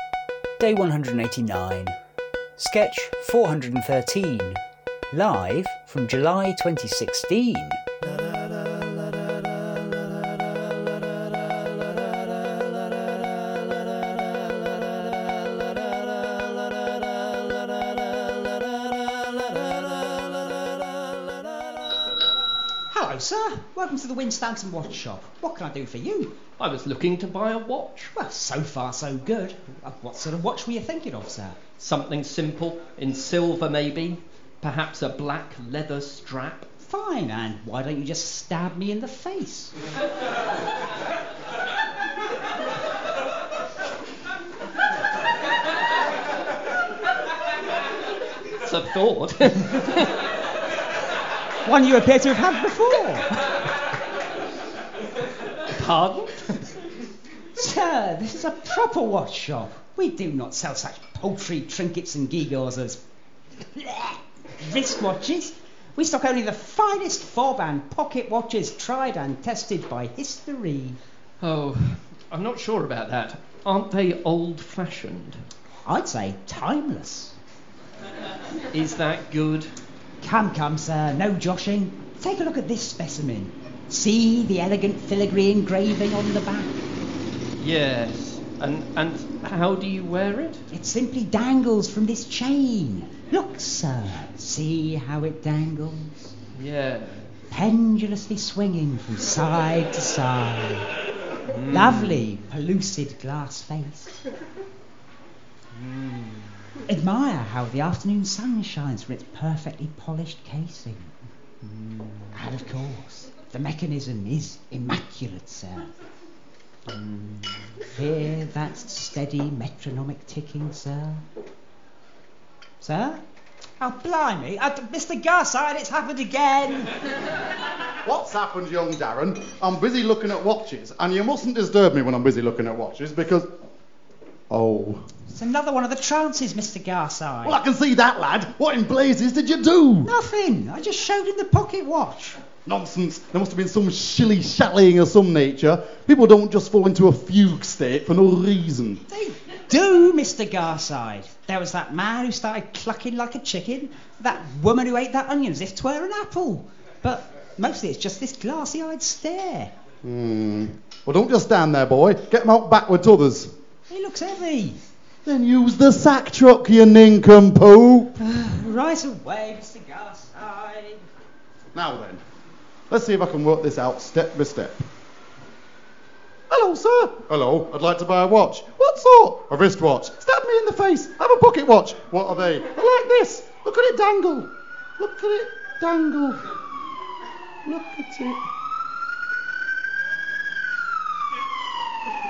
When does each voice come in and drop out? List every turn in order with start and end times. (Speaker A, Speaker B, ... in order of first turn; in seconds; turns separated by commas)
Speaker A: 0.6-1.9, Speaker A: 2.6-4.6, Speaker A: 5.1-7.8, Speaker B: 22.9-26.3, Speaker C: 26.6-28.1, Speaker B: 28.1-31.6, Speaker C: 31.8-36.7, Speaker B: 36.8-39.7, Speaker C: 48.6-50.2, Speaker B: 51.6-53.6, Speaker C: 55.7-56.7, Speaker B: 57.5-63.0, Speaker B: 63.7-71.0, Speaker C: 71.4-75.4, Speaker B: 75.8-77.3, Speaker C: 78.7-79.7, Speaker B: 80.2-86.9, Speaker C: 87.6-90.6, Speaker B: 90.7-96.3, Speaker C: 96.5-97.3, Speaker B: 97.5-100.9, Speaker C: 101.5-102.2, Speaker B: 101.7-104.1, Speaker C: 105.7-106.7, Speaker B: 106.9-111.2, Speaker C: 111.6-112.4, Speaker B: 112.3-115.9, Speaker C: 116.9-117.7, Speaker B: 117.9-121.2, Speaker B: 122.8-123.2, Speaker B: 123.8-127.0, Speaker D: 128.0-133.5, Speaker D: 134.5-135.0, Speaker B: 135.3-137.6, Speaker D: 137.4-140.1, Speaker B: 140.0-142.4, Speaker D: 142.6-149.0, Speaker B: 149.1-159.7, Speaker D: 160.0-163.5, Speaker B: 163.9-164.8, Speaker D: 165.2-168.1, Speaker B: 168.2-171.0, Speaker D: 171.7-172.2, Speaker D: 172.9-174.9, Speaker D: 176.5-186.4, Speaker D: 187.6-188.4